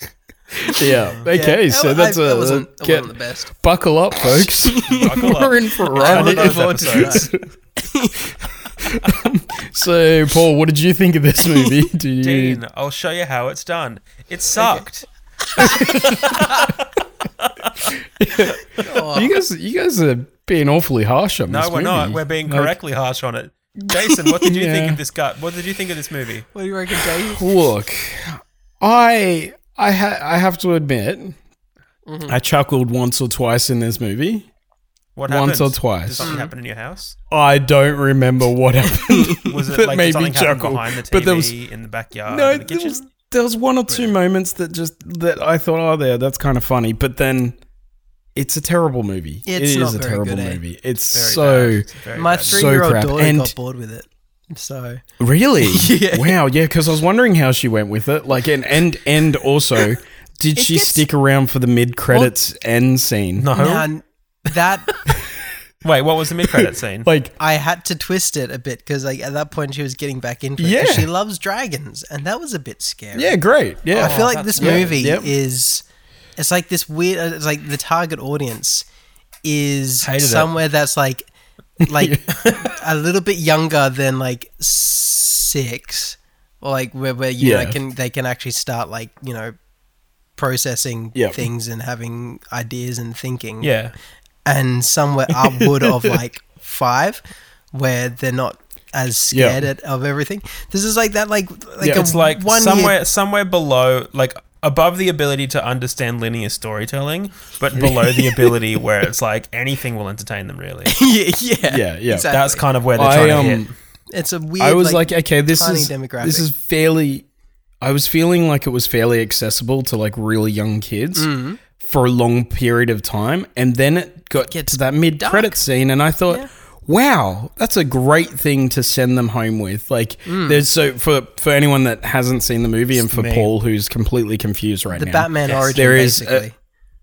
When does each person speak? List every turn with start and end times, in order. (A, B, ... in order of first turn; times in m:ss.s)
0:00.6-0:07.4 A
0:00.8-0:03.5 B
0:04.2-0:08.3 B
0:04.8-0:07.3 C
0:08.8-0:12.6 A
0:11.4-0:11.8 B
0:12.2-0:16.7 C
0:14.6-0:14.8 B
0:15.4-0:16.7 B
0:15.6-0:16.6 A
0:17.4-0:17.7 C
0:18.2-0:22.7 A
0:18.8-0:19.3 B
0:21.5-0:26.5 C
0:23.8-0:25.0 A
0:26.5-0:27.7 B
0:27.2-0:31.4 A
0:32.0-0:32.3 B
0:32.3-0:34.5 A
0:35.2-0:37.2 C
0:35.3-0:36.4 A
0:36.2-0:36.5 B
0:37.3-0:41.5 A
0:38.9-0:39.5 B
0:39.4-0:43.0 C
0:42.3-0:47.6 A
0:48.3-0:51.9 A
0:49.4-0:50.6 B
0:51.1-0:52.7 C
0:52.2-0:55.0 B
0:52.4-0:53.5 A
0:55.2-1:03.5 A
0:55.6-0:56.4 B
1:00.6-1:01.0 B
1:03.4-1:03.9 C
1:03.5-1:05.0 B
1:05.1-1:05.4 A
1:05.8-1:07.1 C
1:06.5-1:07.3 A
1:07.4-1:13.4 B
1:10.6-1:11.1 A
1:13.1-1:15.3 A
1:13.9-1:15.0 C
1:13.9-1:15.8 B
1:16.4-1:18.8 B
1:19.4-1:21.3 B
1:20.0-1:20.5 C
1:21.8-1:22.5 A
1:21.8-1:29.5 B
1:27.4-1:27.8 A
1:30.4-1:33.7 B
1:31.1-1:31.4 A
1:33.6-1:33.9 C
1:34.4-1:43.0 B
1:39.3-1:39.6 A
1:41.8-1:42.1 A
1:41.9-1:51.0 C
1:47.8-1:48.5 A
1:50.8-1:52.6 B
1:51.6-1:52.3 A
1:52.3-1:53.7 C
1:52.9-1:53.7 A
1:54.1-1:56.5 B
1:54.6-1:57.2 A
1:57.8-2:16.5 A
2:01.1-2:01.6 B
2:04.4-2:05.6 B
2:10.2-2:10.6 B
2:12.9-2:13.5 C
2:14.9-2:16.6 B
2:15.4-2:15.7 C